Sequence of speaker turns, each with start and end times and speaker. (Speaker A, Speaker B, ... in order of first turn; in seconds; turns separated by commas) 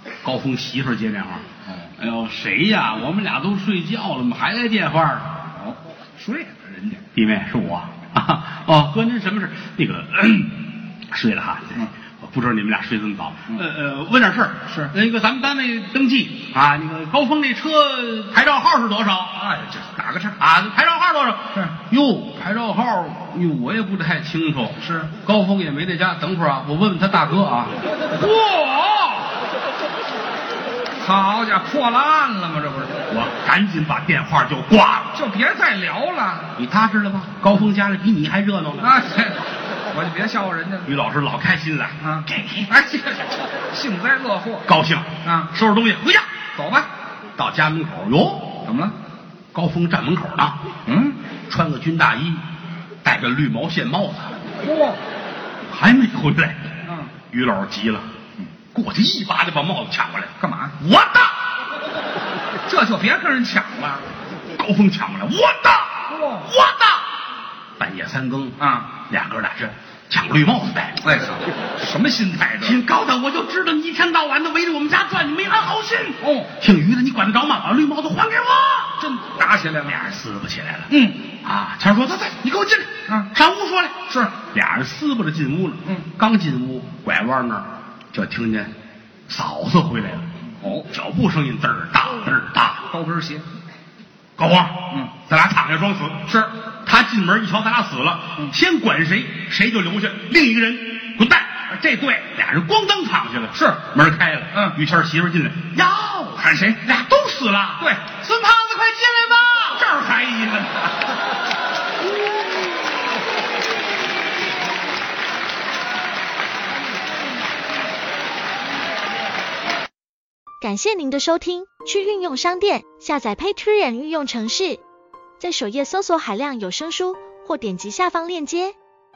Speaker A: 0.2-5.4, Speaker B: 1.7-1.9, Speaker B: 5.5-7.1, Speaker A: 7.1-19.4, Speaker B: 14.7-14.9, Speaker B: 19.4-20.4, Speaker A: 20.4-27.8, Speaker B: 24.8-25.1, Speaker B: 28.0-29.4, Speaker B: 31.0-33.0, Speaker A: 33.1-35.2, Speaker B: 35.1-36.6, Speaker A: 36.5-39.0, Speaker B: 38.8-40.9, Speaker A: 40.9-42.7, Speaker B: 42.0-44.7, Speaker A: 44.7-46.3, Speaker B: 45.2-45.5, Speaker B: 46.5-46.9, Speaker A: 47.4-48.6, Speaker B: 48.6-49.0, Speaker A: 49.5-50.7, Speaker B: 50.9-51.2, Speaker A: 51.5-52.4, Speaker A: 53.0-54.4, Speaker B: 54.6-55.0, Speaker A: 55.7-56.7, Speaker B: 56.8-57.1, Speaker A: 57.3-58.1, Speaker A: 58.7-61.4, Speaker B: 60.4-60.8, Speaker B: 62.6-64.1, Speaker A: 64.6-67.1, Speaker B: 66.1-66.5, Speaker A: 67.8-71.1, Speaker B: 68.6-68.9, Speaker B: 71.0-72.8, Speaker A: 72.6-79.1, Speaker B: 76.2-76.5, Speaker B: 79.0-80.0, Speaker A: 79.8-88.7, Speaker B: 80.9-81.3, Speaker B: 83.1-83.3, Speaker B: 84.1-84.3, Speaker A: 89.3-90.3, Speaker B: 90.4-90.9, Speaker A: 90.9-92.9, Speaker B: 92.9-93.5, Speaker A: 94.4-109.5, Speaker B: 101.7-102.2, Speaker B: 103.5-103.8, Speaker B: 104.5-104.8, Speaker B: 106.4-106.8, Speaker B: 107.8-108.2, Speaker B: 109.0-111.2, Speaker C: 120.6-124.8, Speaker C: 125.4-128.8